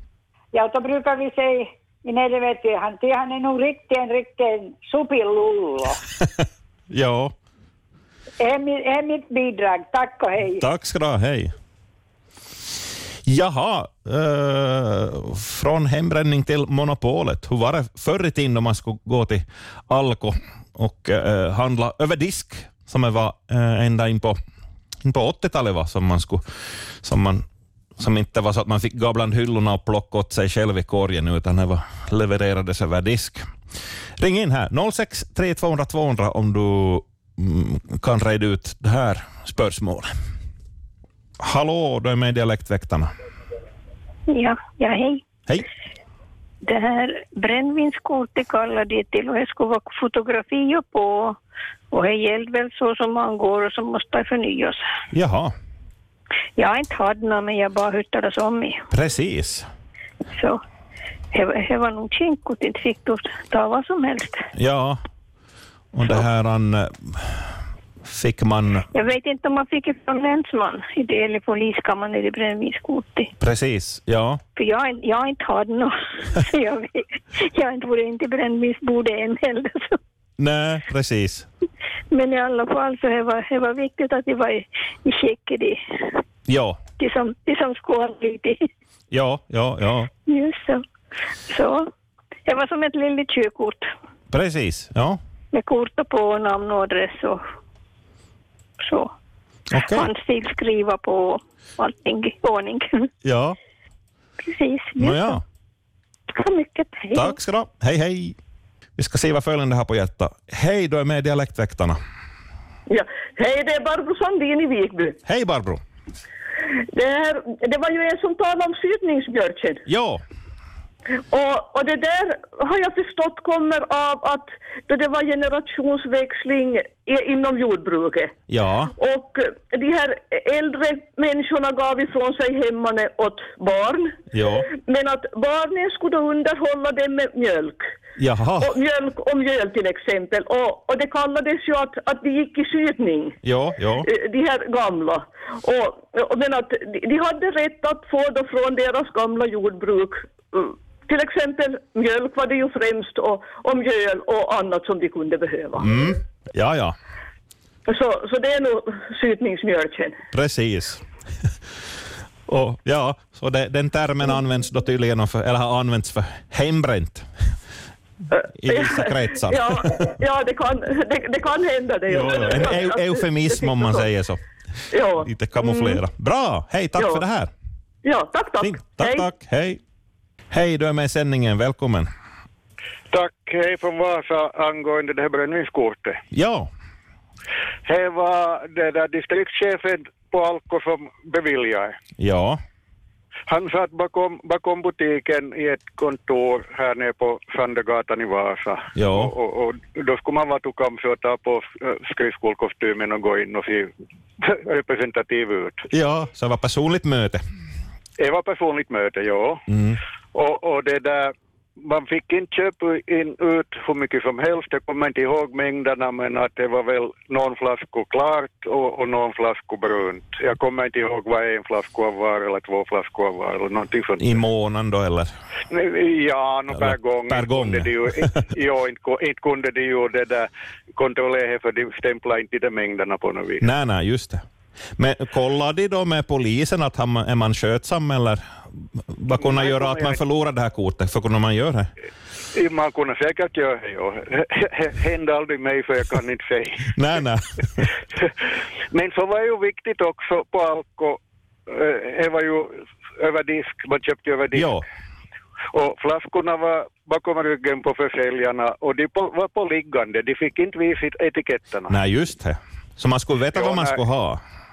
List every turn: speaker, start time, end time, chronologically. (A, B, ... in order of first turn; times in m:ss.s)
0:00.5-0:06.0 A
0:06.9-0:07.3 B
0:08.4-0:10.6 A
0:10.6-0:11.5 B
0:13.3-0:24.4 B
0:25.0-0:26.4 B
0:27.0-0:27.4 B
0:28.0-0:33.5 B
0:34.2-0:40.1 B
0:41.4-0:43.1 B
0:44.3-0:45.2 C
0:46.6-0:51.4 C
0:51.9-0:54.9 C
0:55.1-0:55.5 B
0:56.6-0:58.8 C
0:58.9-0:59.7 B
1:00.3-1:00.6 C
1:01.3-1:04.5 C
1:04.6-1:05.0 B
1:05.9-1:07.4 B
1:08.0-1:08.8 B
1:08.9-1:13.3 C
1:13.4-1:14.4 B
1:14.6-1:20.0 C
1:20.4-1:21.5 B
1:22.1-1:26.2 C
1:26.5-1:26.8 B
1:27.0-1:28.7 C
1:29.1-1:30.1 B
1:30.2-1:30.8 C
1:31.5-1:31.9 C
1:32.4-1:33.9 C
1:34.3-1:35.2 B
1:35.5-1:37.4 C
1:38.8-1:39.1 C
1:39.7-1:40.1 B
1:39.8-1:43.1 C
1:43.2-1:43.6 B
1:44.4-1:45.4 C
1:45.0-1:45.4 B
1:46.3-1:47.4 C
1:47.1-1:48.4 B
1:49.0-1:52.0 B
1:52.9-1:55.2 D
1:55.2-1:55.8 B
1:56.9-1:59.8 D
1:59.8-2:00.2 B
2:01.3-2:08.3 D
2:08.5-2:08.9 B
2:08.9-2:17.9 D
2:14.3-2:14.7 B
2:18.2-2:18.7 B
2:18.6-2:23.4 D
2:23.4-2:24.1 B
2:24.0-2:35.9 D
2:35.8-2:36.9 B
2:37.9-2:40.2 D
2:40.3-2:41.0 B
2:42.5-2:47.3 B
2:48.3-2:54.0 D
2:48.6-2:50.1 B
2:52.1-2:54.4 B
2:54.9-2:56.0 D
2:55.2-2:57.5 B
2:57.0-2:57.2 D
2:58.0-2:59.2 D
2:58.6-2:59.8 B
3:00.5-3:02.1 B
3:03.1-3:06.2 E
3:06.3-3:06.7 B
3:07.8-3:12.0 E
3:12.2-3:12.6 B
3:13.5-3:25.8 E
3:19.0-3:19.3 B
3:25.9-3:27.4 B
3:28.2-3:29.6 E
3:29.7-3:30.0 B
3:30.3-3:44.3 E
3:44.2-3:45.3 B
3:45.7-3:53.6 E
3:46.7-3:48.4 B
3:53.6-3:54.4 B
3:55.0-3:58.4 B
3:59.1-4:01.9 B
3:59.3-4:00.2 E
4:02.5-4:07.0 E
4:06.9-4:07.9 B
4:08.9-4:14.8 E
4:14.5-4:14.8 B
4:15.7-4:21.9 E
4:21.9-4:24.4 B
4:23.5-4:24.0 E